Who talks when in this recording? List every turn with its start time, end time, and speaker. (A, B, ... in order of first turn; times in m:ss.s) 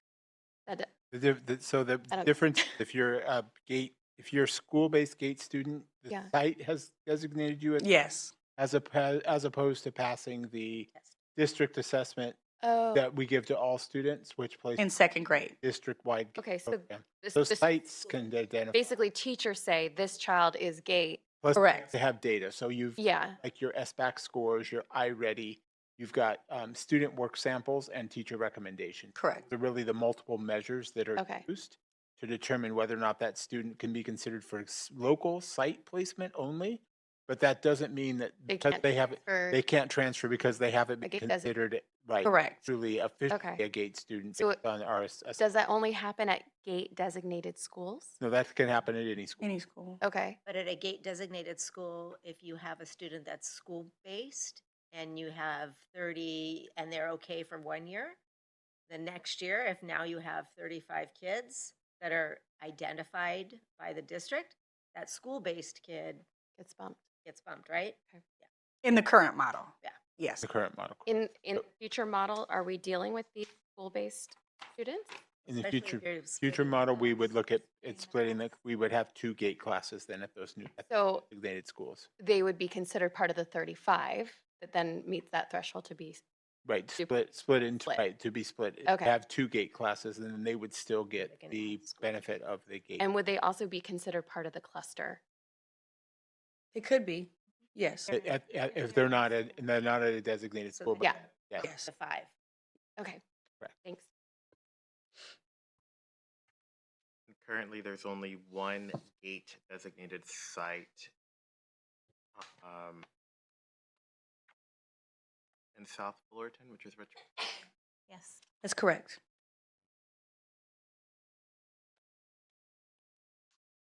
0:01.1-0:07.9 A
0:02.1-0:02.6 B
0:07.8-0:08.3 C
0:08.6-0:12.4 A
0:12.6-0:13.0 B
0:12.9-0:14.8 A
0:14.8-0:15.5 C
0:15.6-0:18.8 A
0:16.4-0:17.7 B
0:18.7-0:21.3 B
0:21.4-0:45.4 A
0:21.5-0:21.9 C
0:23.0-0:23.4 B
0:29.2-0:29.4 C
0:31.2-0:31.4 B
0:38.5-0:39.6 B
0:41.0-0:41.5 B
0:42.2-0:42.7 C
0:43.3-0:43.6 B
0:45.4-0:48.2 B
0:48.2-0:49.5 A
0:49.4-0:50.0 C
0:50.0-0:50.4 B
0:50.4-0:58.2 D
0:58.9-1:06.2 D
1:06.6-1:07.0 B
1:07.2-1:08.4 D
1:08.8-1:10.4 C
1:10.4-1:11.0 A
1:11.0-1:15.1 B
1:15.4-1:22.1 A
1:15.5-1:17.3 D
1:20.9-1:21.2 B
1:22.2-1:26.2 B
1:26.6-1:33.0 A
1:28.8-1:29.1 B
1:31.2-1:32.2 D
1:33.0-1:35.2 B
1:36.7-1:38.1 C
1:38.1-1:38.4 D
1:38.1-1:41.6 A
1:40.7-1:42.3 D
1:41.0-1:41.2 B
1:41.6-1:41.9 C
1:43.8-1:44.1 B
1:47.3-1:51.1 E
1:52.4-1:53.0 E
1:55.8-1:57.5 E
1:58.6-1:59.2 C